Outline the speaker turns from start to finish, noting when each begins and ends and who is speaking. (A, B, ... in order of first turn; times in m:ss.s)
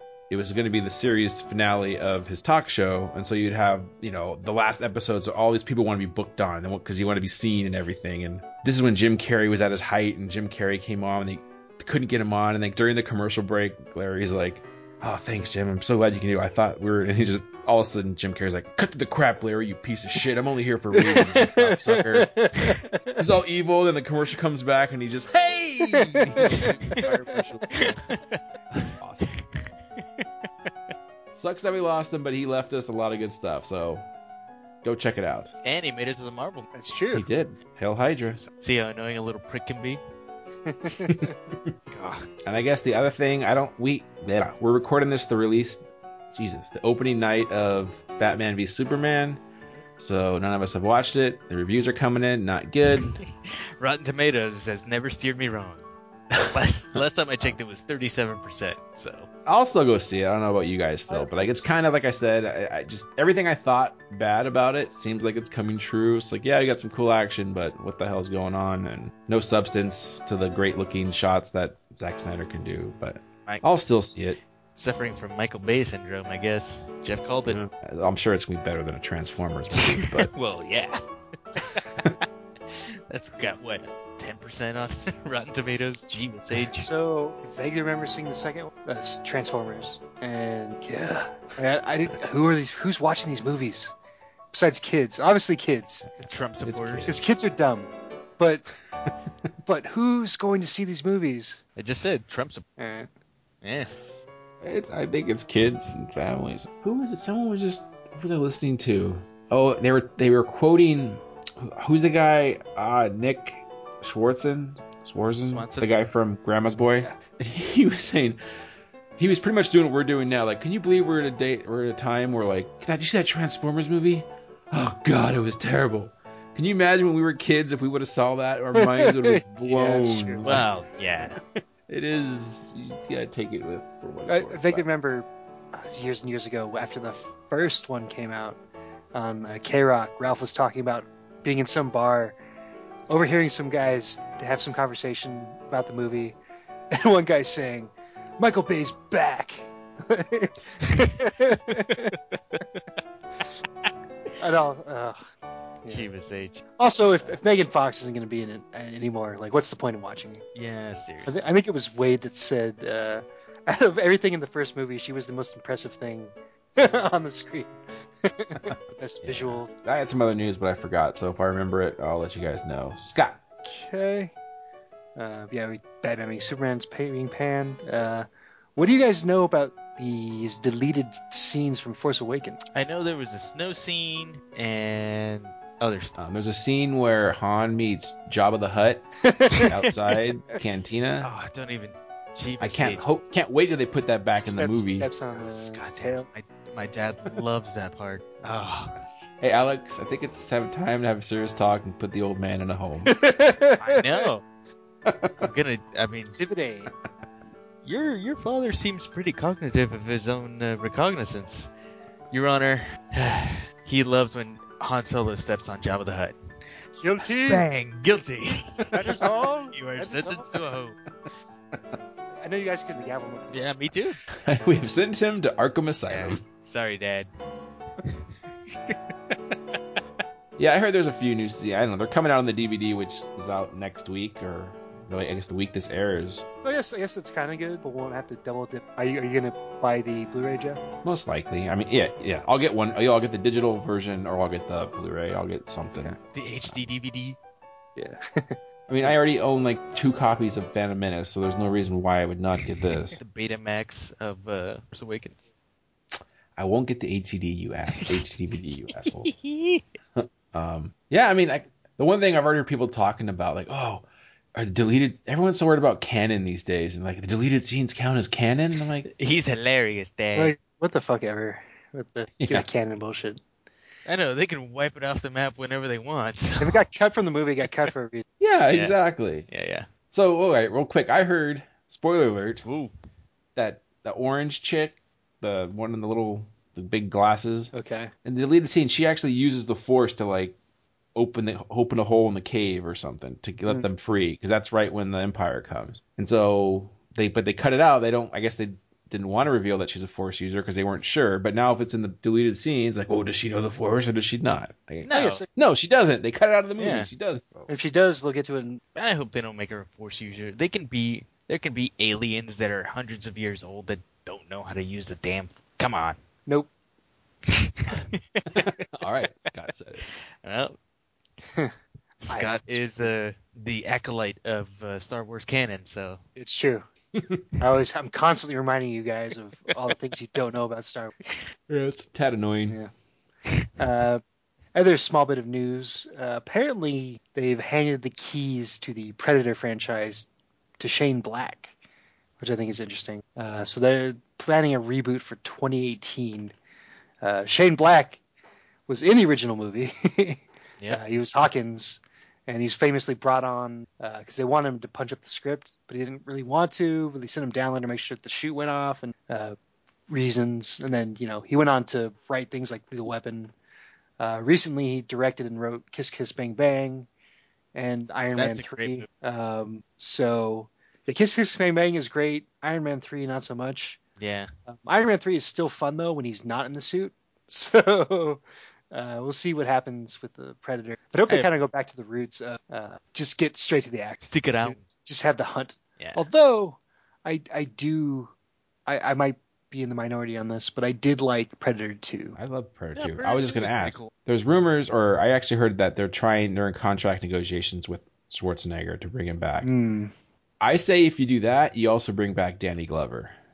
0:00.3-0:22.4 A
0:21.0-0:23.2 B
0:23.2-0:28.0 A
0:26.0-0:27.4 B
0:26.4-0:28.4 C
0:28.9-0:29.4 A
0:30.0-0:30.3 C
0:31.3-0:34.0 A
0:34.8-0:35.5 A
0:35.6-0:36.7 C
0:36.8-0:37.2 B
0:37.1-0:38.4 A
0:38.5-0:40.0 C
0:40.7-0:41.3 B
0:41.9-0:42.3 C
0:42.4-0:49.4 A
0:50.0-0:53.2 A
0:53.0-0:55.8 C
0:56.5-0:59.3 C
0:59.5-1:14.4 A
1:01.1-1:01.6 B
1:14.8-1:17.6 C
1:17.5-1:20.3 A
1:19.8-1:21.0 C
1:21.6-1:26.9 C
1:26.8-1:33.9 B
1:34.5-1:36.1 B
1:36.2-1:37.3 C
1:36.6-1:37.2 A
1:37.1-1:38.7 B
1:39.6-1:41.6 B
1:41.8-1:42.6 C
1:42.8-1:43.1 B
1:43.6-1:43.9 C
1:44.6-1:58.4 A
1:55.3-1:55.9 C
1:59.2-2:10.7 A
2:08.8-2:10.5 B
2:10.4-2:11.4 C
2:11.9-2:14.8 A
2:14.3-2:18.6 B
2:19.1-2:22.4 B
2:23.1-2:26.4 B
2:26.9-2:32.1 B
2:31.7-2:32.8 C
2:34.4-2:35.2 B
2:35.8-2:36.1 B
2:35.9-2:36.6 C
2:36.8-2:40.4 B
2:40.6-2:41.4 C
2:41.3-2:49.7 B
2:49.2-2:53.4 A
2:53.6-2:54.3 B
2:55.2-3:02.6 B
3:02.7-3:06.2 C
3:06.2-3:11.3 A
3:09.2-3:09.7 B
3:11.2-3:13.0 C
3:12.6-3:15.1 A
3:14.4-3:16.3 B
3:15.3-3:19.0 C
3:19.4-3:23.1 A
3:23.1-3:24.3 B
3:23.8-3:24.4 C
3:25.1-3:25.5 A
3:25.4-3:26.4 C
3:26.3-3:26.9 B
3:27.8-3:31.7 C
3:32.3-3:36.4 C
3:37.0-3:37.7 B
3:37.5-3:41.0 C
3:38.9-3:40.6 B
3:42.4-3:43.7 B
3:43.5-3:44.4 C
3:44.4-3:46.4 A
3:46.1-3:47.3 C
3:48.0-3:49.8 C
3:50.6-3:56.5 A
3:56.6-4:00.8 B
4:01.0-4:06.8 A
4:06.3-4:07.4 C
4:08.0-4:09.1 B
4:08.9-4:13.2 A
4:13.2-4:15.5 C
4:16.6-4:19.3 A
4:19.0-4:19.9 C
4:20.2-4:29.1 A
4:29.1-4:30.6 C
4:30.4-4:33.4 B
4:32.4-4:32.7 A
4:34.1-4:36.8 C
4:36.6-4:38.2 B
4:38.4-4:39.5 A
4:38.7-4:39.0 C
4:39.5-4:39.9 C
4:40.1-4:42.6 A
4:42.6-4:42.9 C
4:43.6-4:47.7 A
4:47.7-4:48.1 B
4:48.2-4:50.6 A
4:51.2-5:07.7 A
5:05.0-5:05.4 C
5:05.1-5:05.5 B
5:06.8-5:07.1 C
5:07.7-5:08.8 B
5:09.0-5:16.2 C
5:17.5-5:18.7 C
5:18.5-5:20.1 A
5:20.1-5:20.8 C
5:22.2-5:26.2 C
5:22.3-5:22.8 B
5:26.4-5:26.9 B
5:27.2-5:27.4 A
5:27.6-5:31.1 B
5:31.7-5:32.8 A
5:33.8-5:34.2 B
5:34.8-5:40.3 B
5:40.8-5:41.8 B
5:42.4-5:46.5 B
5:47.2-5:48.2 B
5:48.9-5:59.6 B
6:00.1-6:03.5 B
6:04.2-6:07.1 B
6:07.8-6:14.0 B
6:08.4-6:09.1 C
6:14.2-6:14.5 C
6:14.7-6:28.3 B
6:24.3-6:24.8 C
6:26.0-6:26.3 C
6:28.9-6:32.4 B
6:32.4-6:39.7 A
6:33.0-6:34.1 C
6:39.6-6:40.1 B
6:40.6-6:43.3 A